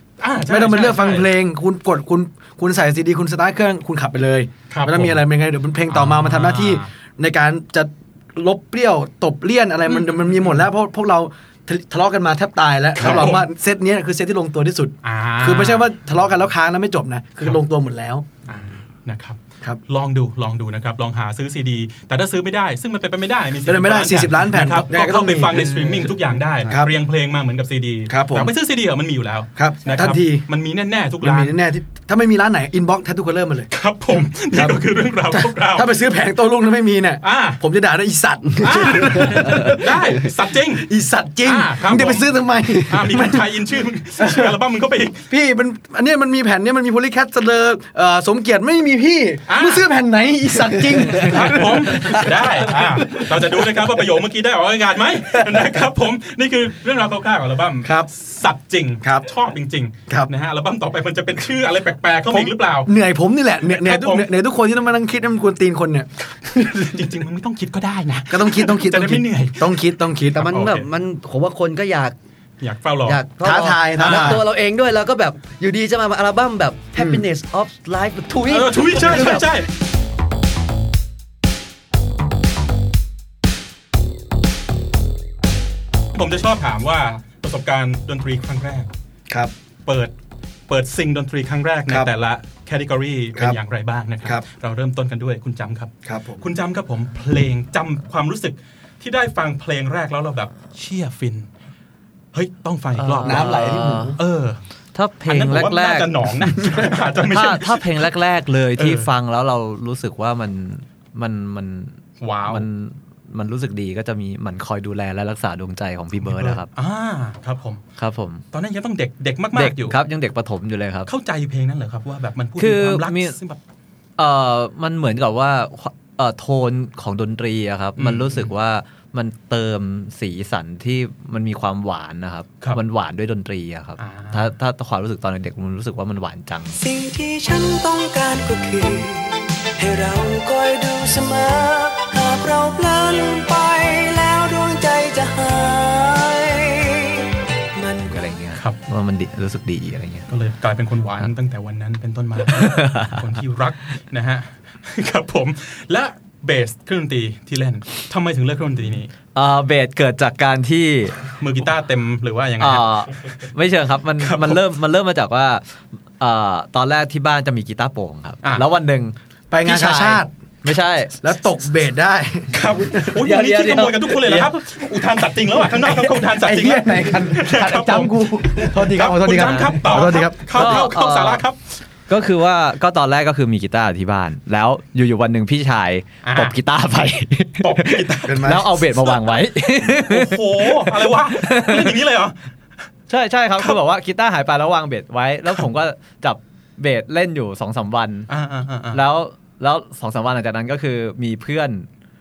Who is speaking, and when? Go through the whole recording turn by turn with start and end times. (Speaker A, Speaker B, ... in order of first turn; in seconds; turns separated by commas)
Speaker A: 0.2-1.3, Speaker B: 0.5-18.3, Speaker A: 4.7-5.2, Speaker A: 5.9-6.9, Speaker A: 9.9-10.7, Speaker A: 13.0-13.5, Speaker A: 15.0-15.9, Speaker A: 18.5-31.6, Speaker B: 23.7-26.1, Speaker B: 28.1-28.5, Speaker B: 29.6-30.4, Speaker B: 31.2-33.7, Speaker A: 33.7-35.9, Speaker B: 34.5-40.2, Speaker A: 37.2-37.6, Speaker A: 38.6-40.9, Speaker B: 40.8-43.5, Speaker A: 41.4-42.3, Speaker A: 42.8-45.2, Speaker B: 44.2-44.5, Speaker B: 45.3-53.6, Speaker A: 49.5-49.9, Speaker A: 51.1-62.9, Speaker B: 62.3-67.1, Speaker A: 63.6-64.3, Speaker A: 66.8-70.9, Speaker B: 68.3-70.4, Speaker C: 70.3-72.2, Speaker A: 72.6-73.2, Speaker C: 73.0-79.5, Speaker B: 73.4-74.4, Speaker A: 74.0-74.4, Speaker B: 77.0-77.2, Speaker A: 78.5-79.7, Speaker A: 86.1-88.9, Speaker A: 89.9-90.1, Speaker A: 90.7-101.5, Speaker B: 96.1-96.4, Speaker A: 102.3-104.6, Speaker D: 103.0-104.2, Speaker B: 103.2-104.2, Speaker D: 105.0-106.6, Speaker A: 105.3-108.1, Speaker D: 107.2-112.0, Speaker A: 108.8-109.1, Speaker A: 112.2-112.6, Speaker D: 112.5-116.7, Speaker A: 116.2-117.8, Speaker D: 118.0-118.4, Speaker A: 118.5-120.0, Speaker D: 119.5-121.1, Speaker A: 121.1-123.6, Speaker D: 122.6-123.4, Speaker D: 124.2-136.8, Speaker A: 128.0-128.5, Speaker A: 134.0-134.5, Speaker E: 136.7-148.3, Speaker D: 148.1-150.3, Speaker A: 150.3-159.1, Speaker D: 152.5-153.2, Speaker D: 159.3-161.2, Speaker A: 161.4-163.1, Speaker D: 162.6-165.6, Speaker A: 164.2-164.6, Speaker D: 166.2-171.1, Speaker B: 169.5-170.3, Speaker B: 171.2-174.5, Speaker A: 172.5-181.6, Speaker B: 175.7-180.8, Speaker D: 180.5-181.4, Speaker D: 182.1-192.0, Speaker A: 186.2-186.6, Speaker A: 187.6-189.4, Speaker B: 188.3-188.8, Speaker A: 190.0-192.4, Speaker D: 193.1-198.3, Speaker A: 198.3-199.0, Speaker D: 198.9-201.9